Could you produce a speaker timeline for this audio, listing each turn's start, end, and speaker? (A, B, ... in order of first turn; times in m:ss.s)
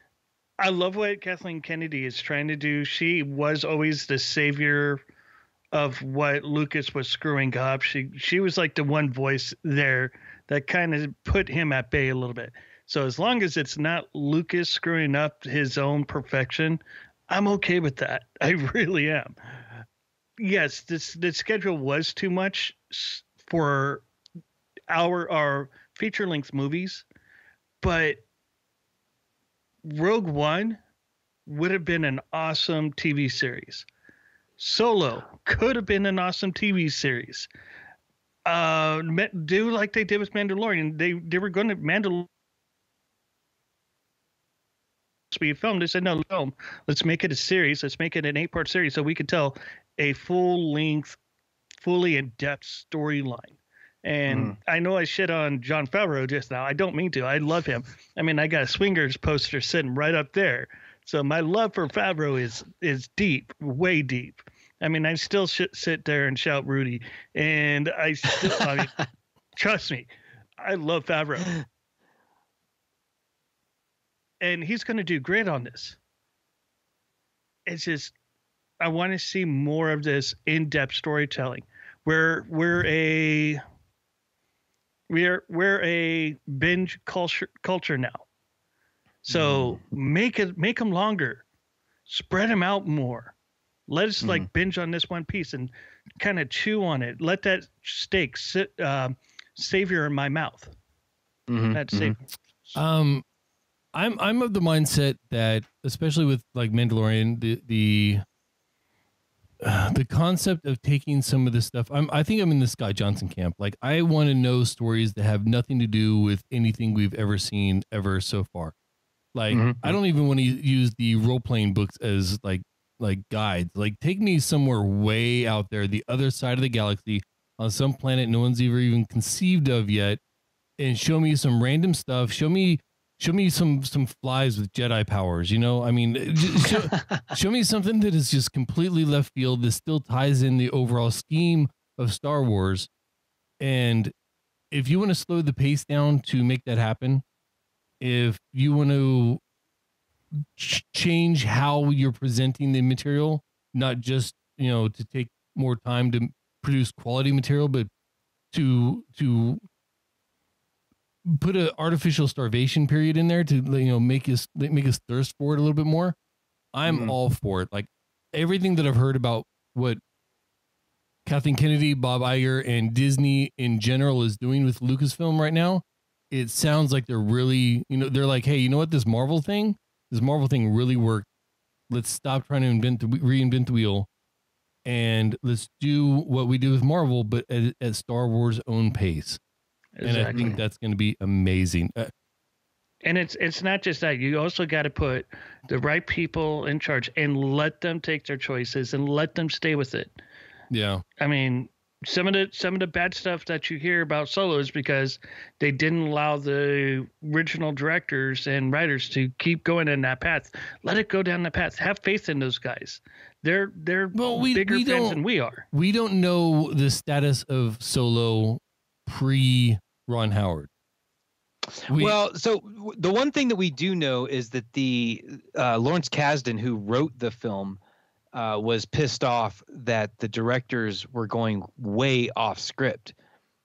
0:00.6-0:05.0 A
0:05.7-0:19.3 A
0:20.4-0:24.0 A
0:24.9-0:27.0 A
0:27.8-0:28.2 A
0:29.8-0:30.8 A
0:31.5-0:33.9 A
0:34.6-0:37.5 A
0:38.4-0:42.3 A
0:45.3-0:51.2 A
0:51.8-1:09.0 A
0:54.3-0:54.6 B
1:09.6-1:10.1 A
1:10.6-1:11.6 A
1:14.4-1:16.0 A
1:17.6-1:18.1 A
1:18.8-1:23.6 A
1:25.1-1:28.2 A
1:29.2-1:31.4 A
1:29.3-1:29.8 B
1:32.1-1:33.3 A
1:33.9-1:40.7 A
1:41.5-1:42.1 B
1:41.7-1:42.2 A
1:42.7-1:43.2 C
1:43.9-1:48.2 C
1:49.6-1:58.7 C
1:59.3-2:10.2 C
1:59.5-2:00.0 B
2:10.8-2:22.9 C
2:17.0-2:17.2 B
2:23.6-2:24.1 C
2:24.7-2:27.2 C
2:28.0-2:29.4 C
2:30.4-2:37.9 C
2:38.5-2:39.6 C
2:41.2-2:46.2 C
2:46.7-2:50.0 C
2:46.8-2:47.1 B
2:51.2-3:01.2 C
3:01.9-3:04.1 C
3:04.8-3:09.4 C
3:10.0-3:10.6 A
3:10.0-3:12.1 C
3:13.0-3:20.1 A
3:20.7-3:21.0 C
3:21.2-3:35.6 A
3:34.1-3:35.2 C
3:35.7-3:40.7 C
3:41.8-3:47.8 B
3:41.9-3:42.2 C
3:48.3-3:53.1 B